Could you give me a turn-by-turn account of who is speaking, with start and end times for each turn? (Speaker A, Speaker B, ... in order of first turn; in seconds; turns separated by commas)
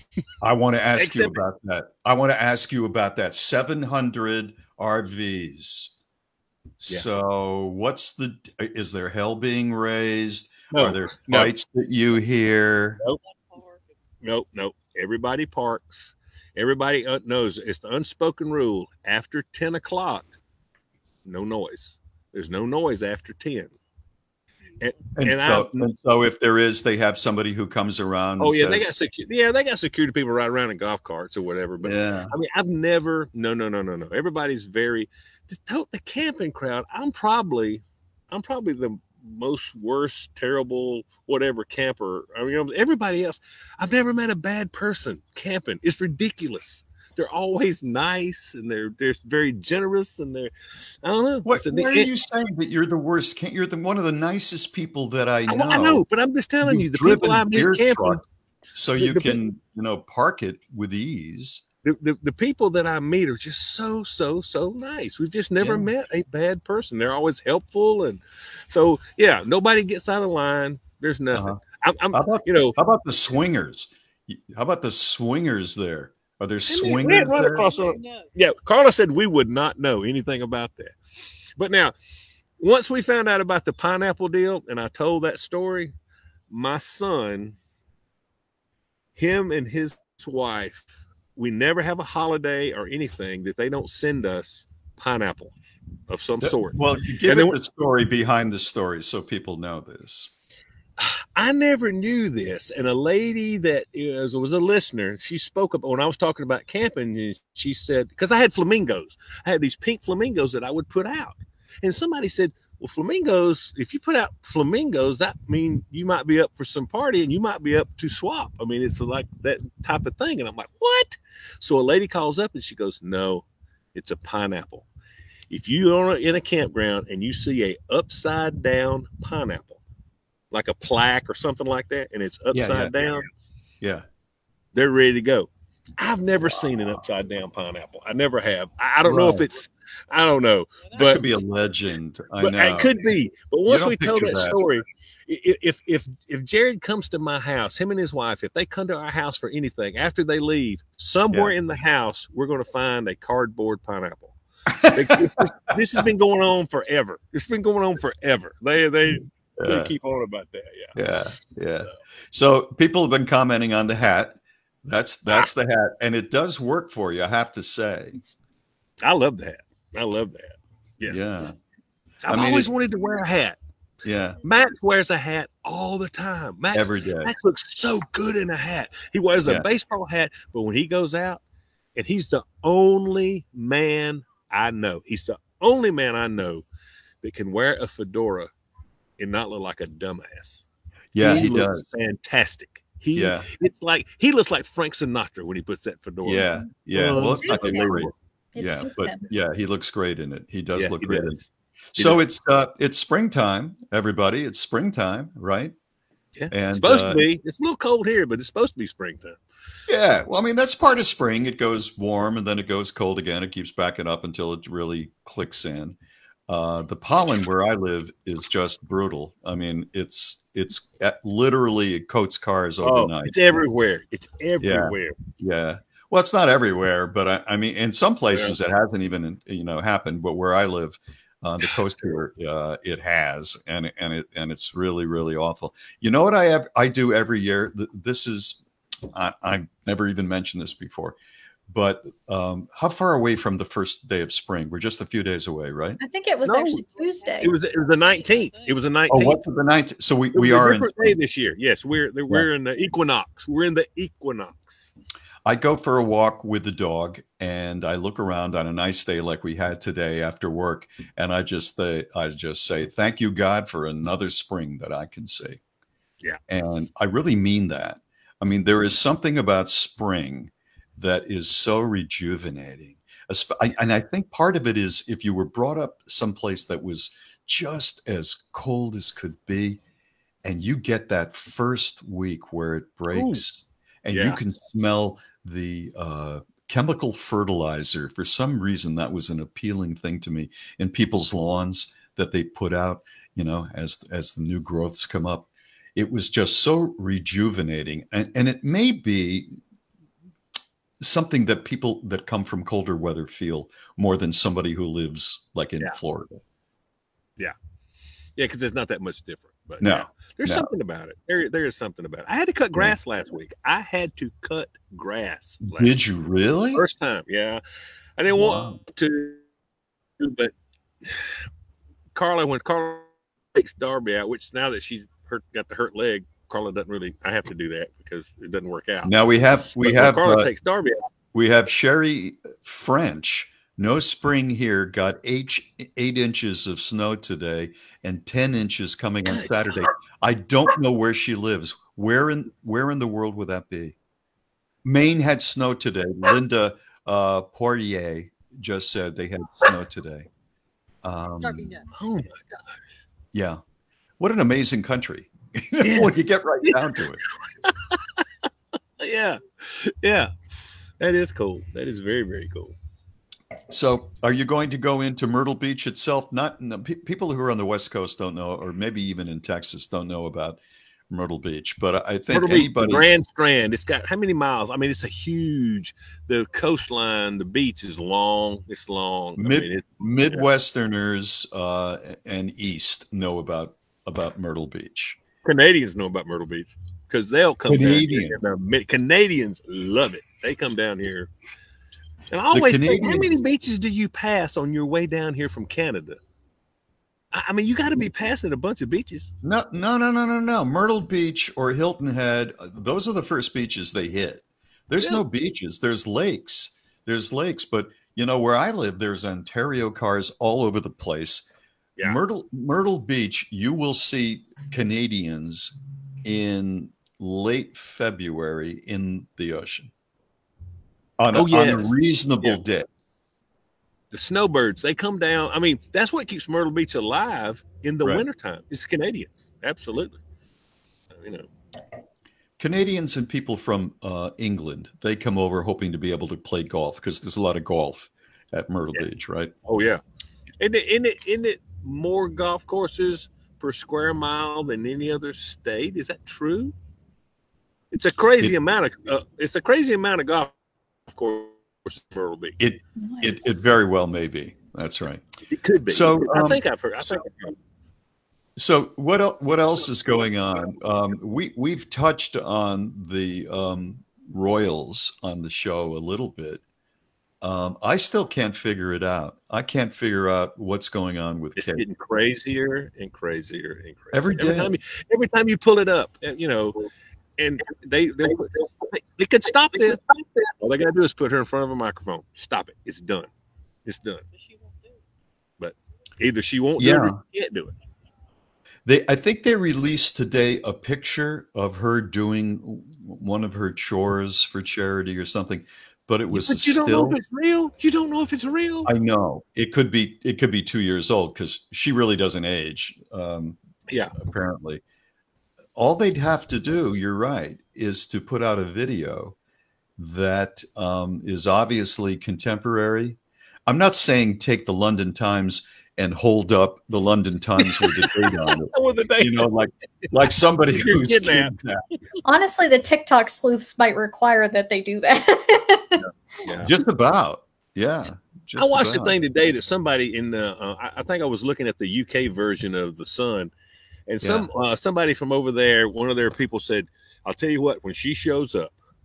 Speaker A: 0.4-5.9, Speaker B: 0.9-1.4, Speaker A: 6.8-13.0, Speaker B: 10.7-11.5, Speaker C: 13.2-13.8, Speaker B: 14.2-20.4, Speaker B: 21.2-23.7, Speaker B: 24.8-25.9, Speaker A: 25.1-28.9, Speaker B: 28.4-50.5, Speaker A: 31.8-32.3, Speaker B: 51.0-52.1, Speaker A: 51.4-56.0, Speaker B: 55.5-58.2, Speaker A: 56.6-58.2, Speaker A: 58.7-61.6, Speaker B: 59.0-59.4, Speaker B: 61.8-72.8, Speaker A: 65.6-65.9, Speaker A: 71.3-71.6, Speaker A: 72.1-77.7, Speaker B: 76.7-81.9, Speaker C: 76.9-78.3, Speaker B: 82.6-85.9, Speaker B: 86.5-87.5, Speaker B: 89.2-97.5, Speaker A: 96.4-100.3, Speaker B: 101.0-124.9, Speaker B: 125.5-129.8, Speaker B: 130.5-133.3, Speaker A: 132.5-133.1, Speaker B: 134.7-141.2, Speaker A: 139.0-139.4, Speaker A: 140.9-142.9, Speaker B: 142.4-154.3, Speaker A: 143.7-144.6, Speaker A: 154.7-155.4, Speaker B: 154.9-160.9, Speaker A: 159.6-159.9, Speaker A: 160.9-168.2, Speaker B: 169.0-171.5, Speaker A: 171.0-171.6, Speaker B: 172.2-173.6, Speaker A: 172.3-172.7, Speaker A: 174.0-174.4, Speaker B: 174.4-181.4, Speaker A: 176.7-177.3, Speaker B: 181.9-186.7, Speaker B: 187.2-188.5, Speaker B: 189.2-190.6, Speaker A: 191.1-191.9, Speaker B: 191.2-198.1, Speaker A: 193.1-193.5, Speaker A: 196.2-201.4, Speaker D: 197.4-198.0, Speaker D: 198.5-199.3, Speaker B: 200.7-201.4, Speaker A: 201.9-205.7, Speaker B: 206.3-209.4, Speaker A: 206.5-207.2, Speaker A: 209.9-223.7, Speaker B: 222.8-225.2, Speaker A: 224.6-241.2, Speaker A: 241.7-246.0, Speaker D: 246.0-247.5, Speaker B: 246.4-246.8, Speaker C: 246.8-248.8, Speaker B: 247.4-249.4, Speaker A: 249.1-251.2, Speaker B: 250.3-254.9, Speaker A: 255.4-265.6, Speaker A: 266.5-279.8, Speaker A: 280.4-299.6, Speaker B: 283.1-283.4, Speaker B: 284.1-284.4, Speaker A: 301.0-306.4, Speaker B: 308.4-315.9, Speaker A: 309.8-310.7, Speaker A: 315.6-316.8, Speaker B: 316.7-317.6, Speaker B: 318.2-319.4, Speaker A: 318.3-318.8, Speaker B: 320.2-320.5, Speaker B: 321.0-321.4, Speaker B: 322.1-331.0, Speaker A: 329.0-330.5, Speaker A: 331.3-343.9, Speaker B: 339.3-339.6, Speaker A: 344.8-350.3, Speaker A: 351.0-351.8, Speaker C: 351.4-352.0, Speaker B: 351.9-352.4, Speaker A: 353.3-353.6, Speaker A: 354.2-357.2, Speaker B: 355.8-356.8, Speaker B: 357.6-358.2, Speaker B: 359.0-360.3, Speaker B: 361.0-362.8, Speaker A: 363.7-373.1, Speaker B: 372.3-380.5, Speaker A: 379.4-385.2, Speaker B: 385.4-391.3, Speaker A: 387.7-388.4, Speaker B: 392.3-396.2, Speaker A: 392.5-393.3, Speaker B: 397.3-399.3, Speaker A: 399.4-411.5, Speaker A: 412.0-419.9, Speaker A: 421.2-422.9, Speaker B: 421.3-422.6, Speaker B: 424.1-430.2, Speaker B: 431.1-431.5, Speaker A: 432.6-439.5, Speaker B: 439.6-440.0, Speaker B: 440.6-446.7, Speaker B: 447.9-450.5, Speaker B: 451.1-452.6, Speaker A: 452.6-455.2, Speaker D: 453.0-453.3, Speaker B: 455.5-457.6, Speaker A: 455.9-457.2, Speaker A: 458.6-466.6, Speaker A: 467.4-471.8, Speaker B: 471.6-483.3, Speaker A: 474.1-474.7, Speaker B: 483.9-484.2, Speaker C: 484.3-485.0, Speaker B: 485.6-487.7, Speaker A: 486.8-487.2, Speaker A: 488.8-497.2, Speaker B: 496.3-498.9, Speaker A: 498.9-503.6, Speaker A: 504.1-504.8, Speaker A: 505.8-509.4, Speaker A: 510.0-521.8, Speaker B: 517.6-519.5, Speaker B: 520.7-521.5, Speaker D: 522.2-526.0, Speaker B: 526.4-526.7, Speaker A: 526.6-529.1, Speaker B: 528.6-533.5, Speaker B: 534.1-538.8, Speaker A: 534.2-534.5